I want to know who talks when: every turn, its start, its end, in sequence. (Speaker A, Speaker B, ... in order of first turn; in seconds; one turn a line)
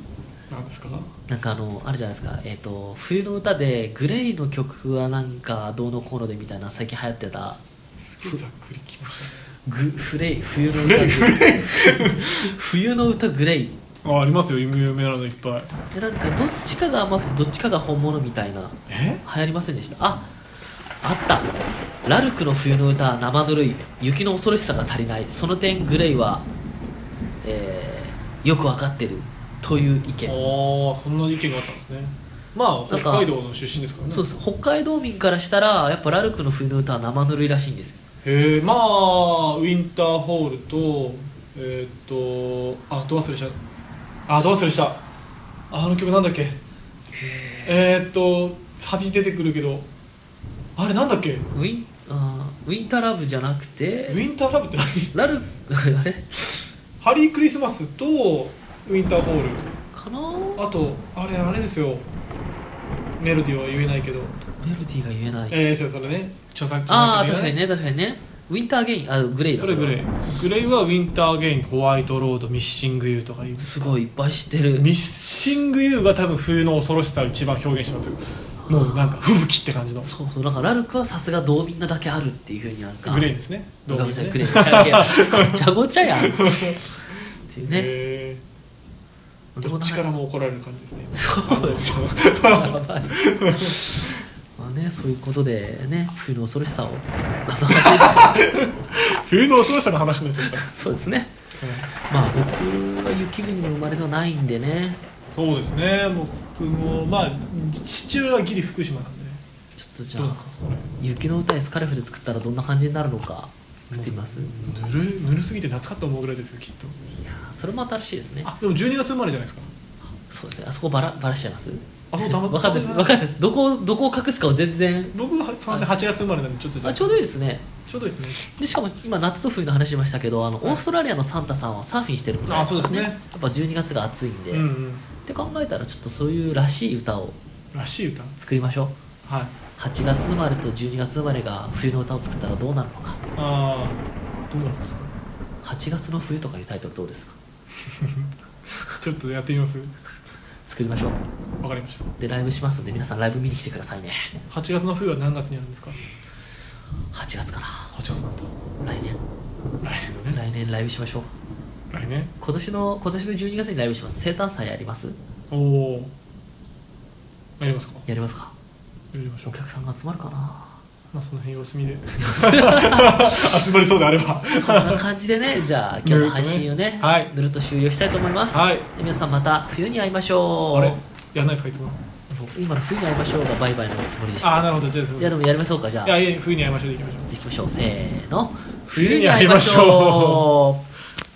Speaker A: 0.5-1.1
Speaker B: 1.3-7.6
Speaker A: 7.9-9.5
Speaker B: 9.6-13.8
Speaker A: 10.7-12.5
Speaker A: 14.0-15.8
Speaker B: 15.9-20.3
Speaker A: 18.9-19.2
Speaker B: 21.0-21.5
Speaker B: 22.0-26.5
Speaker B: 27.4-30.5
Speaker A: 30.2-34.3
Speaker B: 32.9-33.3
Speaker B: 34.1-38.0
Speaker A: 38.2-43.6
Speaker A: 44.3-45.0
Speaker A: 45.7-46.6
Speaker B: 47.2-47.7
Speaker A: 47.6-49.9
Speaker A: 50.8-51.5
Speaker B: 51.5-54.2
Speaker A: 54.1-55.1
Speaker B: 55.1-56.6
Speaker A: 57.0-59.7
Speaker B: 59.9-60.6
Speaker A: 60.6-62.1
Speaker A: 63.2-64.8
Speaker B: 64.6-65.6
Speaker A: 65.5-67.6
Speaker B: 66.9-70.0
Speaker A: 69.5-74.0
Speaker B: 73.6-74.9
Speaker A: 74.7-80.1
Speaker B: 78.6-79.2
Speaker B: 80.0-83.3
Speaker A: 83.0-85.6
Speaker B: 83.9-86.9
Speaker A: 86.2-88.4
Speaker B: 87.5-87.9
Speaker B: 89.5-90.0
Speaker A: 89.6-94.2
Speaker B: 91.1-98.4
Speaker A: 97.7-100.7
Speaker B: 100.4-101.3
Speaker A: 101.6-101.9
Speaker B: 102.1-105.0
Speaker A: 105.3-109.4
Speaker B: 109.8-114.6
Speaker A: 110.1-110.9
Speaker A: 113.9-117.0
Speaker B: 117.2-118.5
Speaker A: 118.4-119.7
Speaker B: 120.3-125.1
Speaker A: 122.1-123.2
Speaker A: 125.1-127.1
Speaker B: 126.8-127.7
Speaker A: 127.9-128.5
Speaker B: 128.4-134.7
Speaker A: 132.5-133.2
Speaker A: 134.5-135.1
Speaker B: 135.2-137.4
Speaker A: 137.7-138.3
Speaker B: 138.4-138.9
Speaker A: 139.2-139.6
Speaker B: 139.8-143.2
Speaker A: 143.3-145.1
Speaker B: 145.6-147.4
Speaker A: 147.8-148.3
Speaker A: 148.9-150.0
Speaker B: 150.7-151.2
Speaker A: 151.6-152.1
Speaker B: 152.2-154.3
Speaker A: 154.5-156.0
Speaker B: 157.1-157.9
Speaker A: 157.9-158.5
Speaker B: 158.8-159.2
Speaker A: 159.8-160.4
Speaker B: 160.3-161.3
Speaker A: 161.9-162.3
Speaker B: 162.4-165.2
Speaker A: 165.5-166.1
Speaker A: 167.6-168.0
Speaker B: 168.1-168.5
Speaker A: 169.1-169.5
Speaker B: 169.4-170.8
Speaker A: 171.1-175.0
Speaker B: 172.2-173.6
Speaker B: 174.6-181.0
Speaker A: 176.0-177.3
Speaker A: 178.5-178.9
Speaker A: 180.7-182.0
Speaker B: 182.3-186.2
Speaker A: 184.4-185.4
Speaker A: 186.0-187.3
Speaker B: 187.3-190.8
Speaker A: 188.9-190.5